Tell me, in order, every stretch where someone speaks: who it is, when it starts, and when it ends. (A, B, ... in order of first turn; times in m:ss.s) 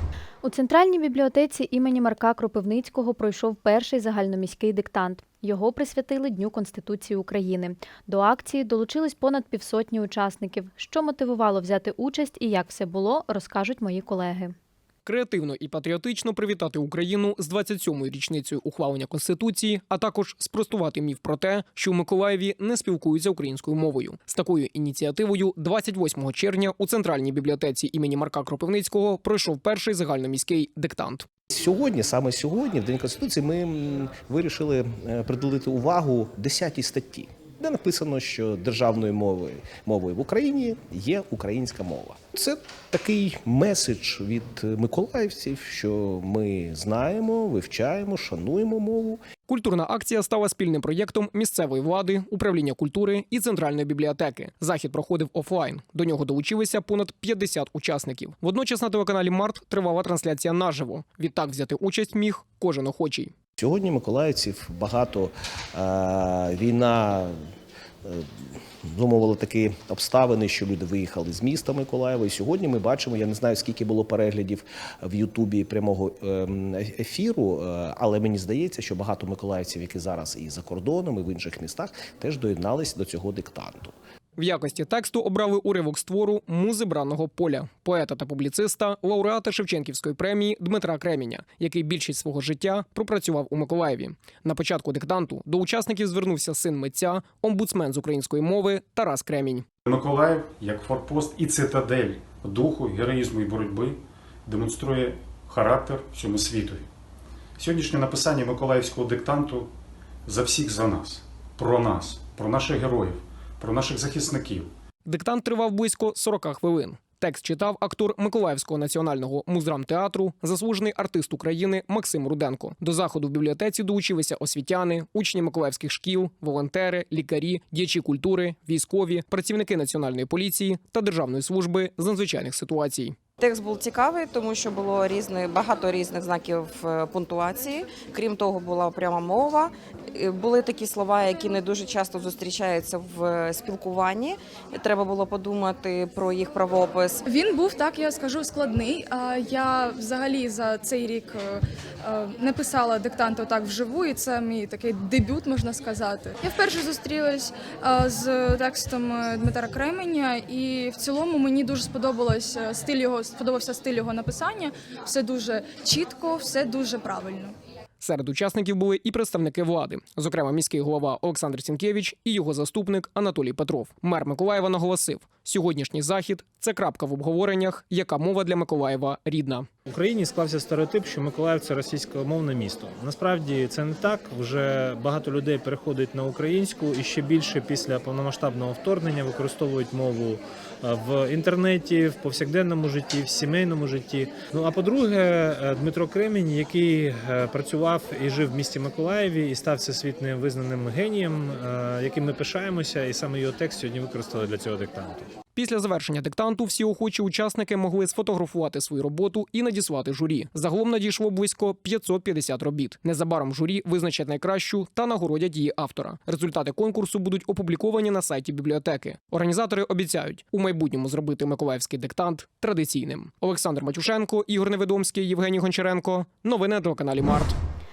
0:00.4-0:14.5 A
0:15.1-0:31.3 B
0:31.5-0:49.2 C
0:49.5-1:03.3 B
1:03.6-1:07.4 C
1:08.0-1:23.9 C
1:24.4-1:39.6 B
1:39.8-1:46.8 D
1:47.6-1:49.7 D
1:50.3-1:54.7 D
1:55.1-2:13.2 B
2:13.4-2:27.2 E
2:27.3-2:47.5 F
2:48.0-2:59.7 B
2:59.9-3:25.3 G
3:25.6-3:47.6 B